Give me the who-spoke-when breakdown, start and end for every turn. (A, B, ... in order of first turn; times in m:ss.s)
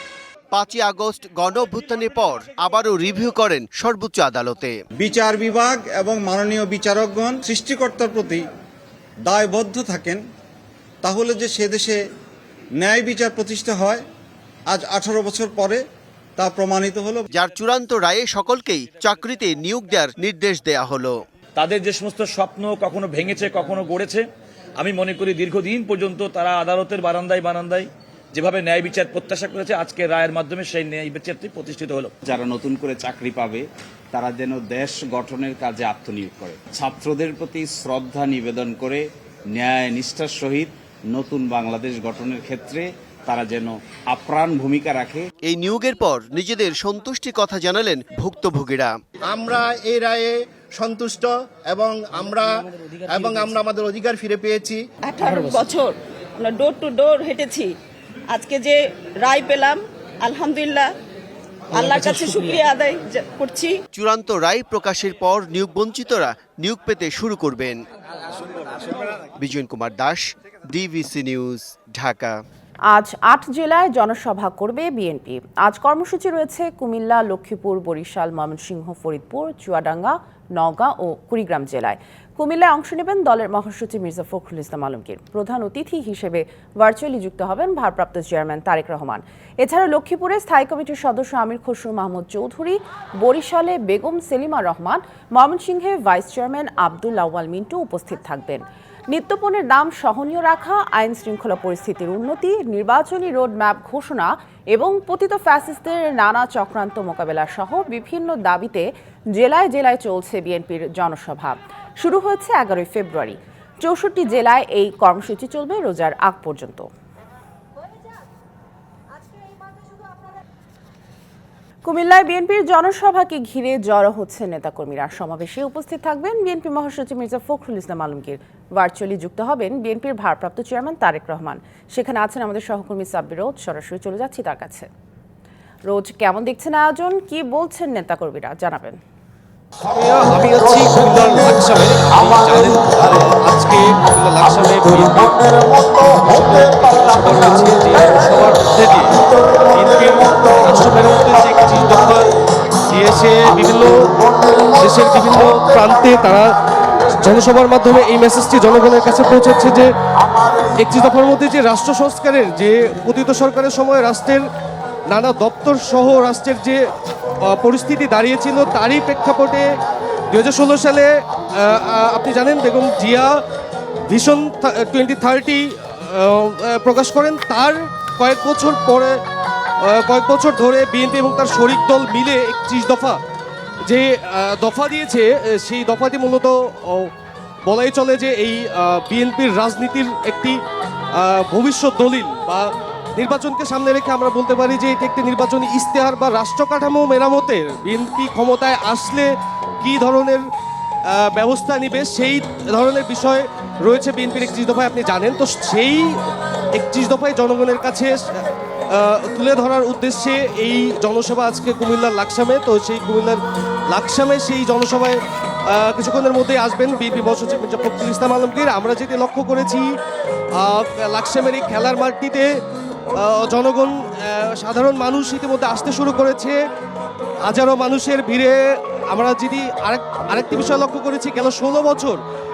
0:00.5-0:04.8 A
0:05.0-0:08.4 B
0:09.3-0:10.2 B
0:11.0-0:12.0 B
0:12.8-0:14.0 B
0:14.7-0:15.8 B
0:16.4-0:17.2 B
0:17.3-0:21.2 A
0:21.8-0:24.1 C
0:24.9-0:27.7 C
0:32.2-0:39.0 D
0:39.6-0:45.3 D
0:45.4-0:48.9 A
0:49.3-0:52.5 E
0:53.1-0:54.8 E
0:55.0-0:57.7 F
0:58.3-1:00.9 F
1:01.7-1:03.8 F
1:04.0-1:07.8 A
1:09.4-1:12.4 A
1:12.9-1:56.9 G
2:01.8-2:14.9 G
2:15.9-2:19.0 G
2:19.9-2:32.3 H
2:32.9-2:34.1 H
2:34.8-2:36.5 H
2:37.1-2:39.9 H
2:40.8-2:44.4 H
2:45.1-2:46.8 H
2:47.5-2:49.7 H
2:50.3-2:53.3 H
2:54.1-2:59.1 H
2:59.8-3:03.2 H
3:03.9-3:07.1 H
3:07.7-3:10.6 H
3:11.2-3:19.3 H
3:19.8-3:20.4 H
3:21.1-3:26.1 H
3:26.7-3:35.2 H
3:35.7-3:39.9 H
3:40.6-3:42.5 H
3:43.2-3:46.6 H
3:47.4-3:48.6 H
3:49.1-3:52.2 H